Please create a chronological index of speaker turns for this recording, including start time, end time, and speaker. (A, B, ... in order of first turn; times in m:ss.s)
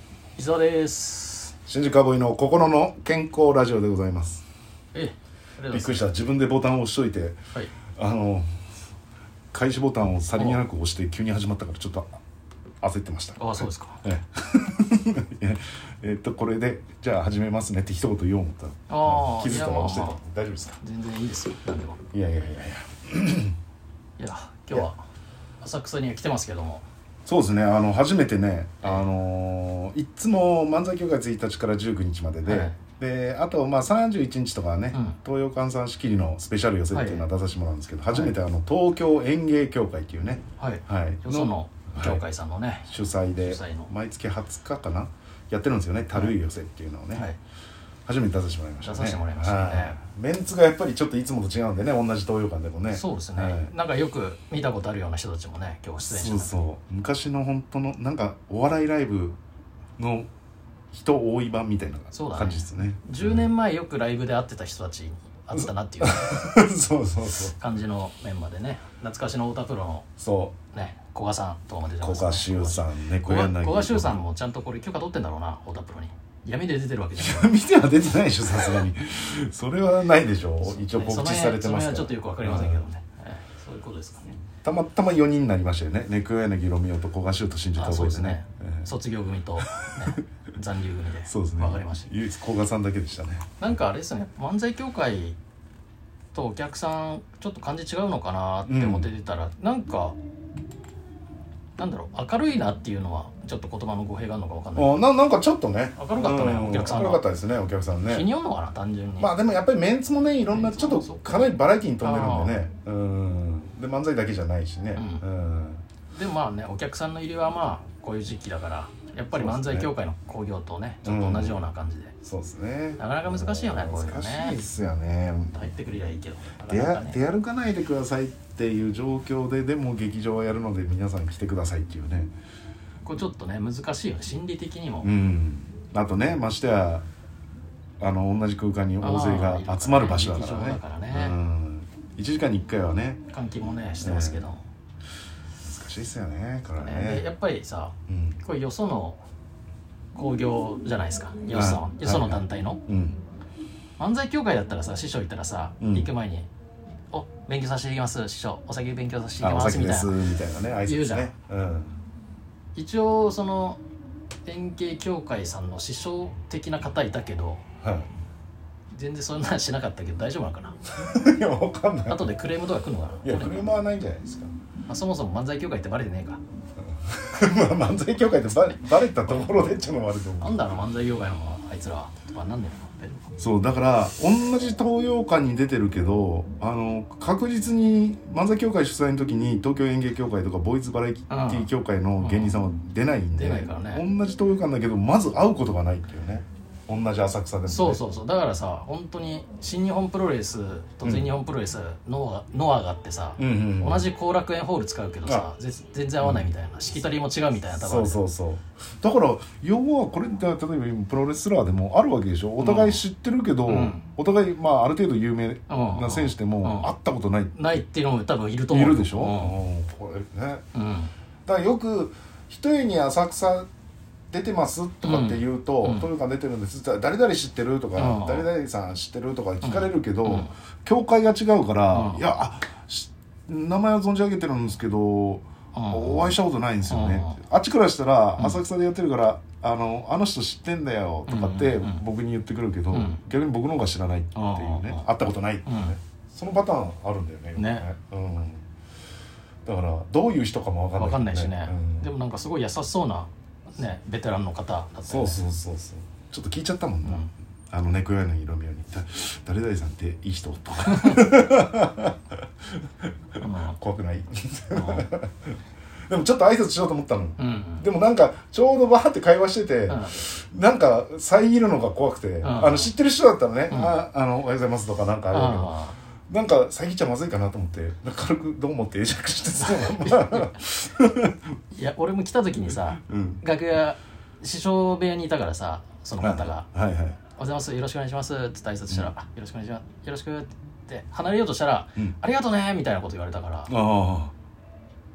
0:00.4-0:01.6 A
0:01.7-0:04.4 B
0:04.9-0:06.1 A
0:05.7-0:07.4 B
0:08.0-0:08.5 B
0:09.5-0:12.1 B
0:12.8-0:20.8 B
0:13.4-0:14.0 A
0:18.9-0:20.2 A
0:20.8-0:22.0 A
0:22.1-0:23.6 B
0:24.2-0:25.0 A
0:25.6-0:26.8 A
0:27.2-0:42.2 B
0:32.4-0:32.8 A
0:36.9-0:37.3 A
0:40.6-0:43.9 A
0:42.8-0:47.3 B
0:48.1-0:53.7 B
0:48.8-0:50.0 A
0:52.9-0:56.6 A
0:56.1-0:59.4 B
1:00.0-1:00.3 B
1:00.9-1:03.5 B
1:02.1-1:06.4 A
1:05.5-1:07.6 B
1:07.5-1:10.1 A
1:10.2-1:10.6 B
1:10.7-1:17.6 A
1:12.0-1:14.2 B
1:17.2-1:22.9 B
1:20.7-1:24.4 A
1:24.6-1:28.9 B
1:27.8-1:32.1 A
1:29.6-1:30.2 B
1:31.2-1:33.6 B
1:33.6-1:35.4 A
1:36.3-1:40.2 A
1:38.7-1:39.1 B
1:41.8-1:45.0 A
1:44.8-1:48.3 B
1:46.0-1:47.3 A
1:48.0-1:49.3 A
1:49.2-1:55.8 B
1:50.5-1:51.5 A
1:52.0-1:52.6 A
1:55.0-1:55.2 A
1:56.1-2:02.1 A
1:59.3-1:59.9 B
2:01.0-2:01.6 B
2:02.2-2:05.7 B
2:03.0-2:04.6 A
2:05.5-2:07.2 A
2:06.7-2:12.3 B
2:13.0-2:15.1 A
2:15.0-2:17.0 B
2:18.0-2:23.2 B
2:19.0-2:21.4 A
2:23.3-2:24.6 A
2:24.0-2:24.6 B
2:25.6-2:27.3 B
2:26.8-2:29.2 A
2:28.1-2:28.4 B
2:30.1-2:32.8 A
2:31.5-2:33.2 B
2:34.0-2:36.5 A
2:35.8-2:36.1 B
2:37.1-2:40.2 A
2:39.4-2:42.0 B
2:40.8-2:41.3 A
2:42.8-2:43.8 A
2:44.4-2:47.6 A
2:47.8-2:48.1 B
2:48.9-2:50.8 A
2:50.9-2:52.3 B
2:52.1-2:53.7 A
2:53.2-2:54.5 B
2:54.9-2:56.4 A
2:57.1-3:00.7 B
2:59.2-2:59.6 A
3:00.4-3:03.3 A
3:03.4-3:18.0 B
3:11.3-3:11.7 A
3:12.2-3:12.6 A
3:13.3-3:14.0 A
3:17.7-3:28.2 A
3:21.0-3:21.3 B
3:23.4-3:24.1 B
3:26.2-3:26.5 B
3:27.7-3:37.8 B
3:32.6-3:33.0 A
3:33.7-3:34.1 A
3:35.7-3:36.9 A
3:37.6-3:39.6 A
3:38.7-3:40.6 B
3:40.7-3:41.1 A
3:41.5-3:43.7 B
3:44.3-4:08.6 B
3:45.0-3:46.1 A
3:48.0-3:48.5 A
3:49.6-3:50.5 A
3:51.9-3:52.2 A
3:55.8-3:56.4 A
3:56.9-3:57.4 A
3:58.4-3:58.6 A
4:01.3-4:02.0 A
4:02.9-4:03.2 A
4:04.4-4:05.1 A
4:05.7-4:05.9 A
4:07.6-4:07.8 A
4:09.6-4:12.1 B
4:11.0-4:15.5 A
4:15.1-4:22.4 B
4:17.0-4:17.3 A
4:23.4-4:23.8 A
4:23.6-4:25.6 B
4:24.7-4:25.1 A
4:26.1-4:41.4 B
4:27.4-4:27.9 A
4:29.9-4:30.2 A
4:32.4-4:32.9 A
4:33.7-4:34.0 A
4:35.3-4:36.0 A
4:39.6-4:40.5 A
4:41.7-4:46.7 A
4:43.0-4:43.4 B
4:46.2-4:47.2 B
4:47.4-4:53.7 A
4:53.7-4:54.3 B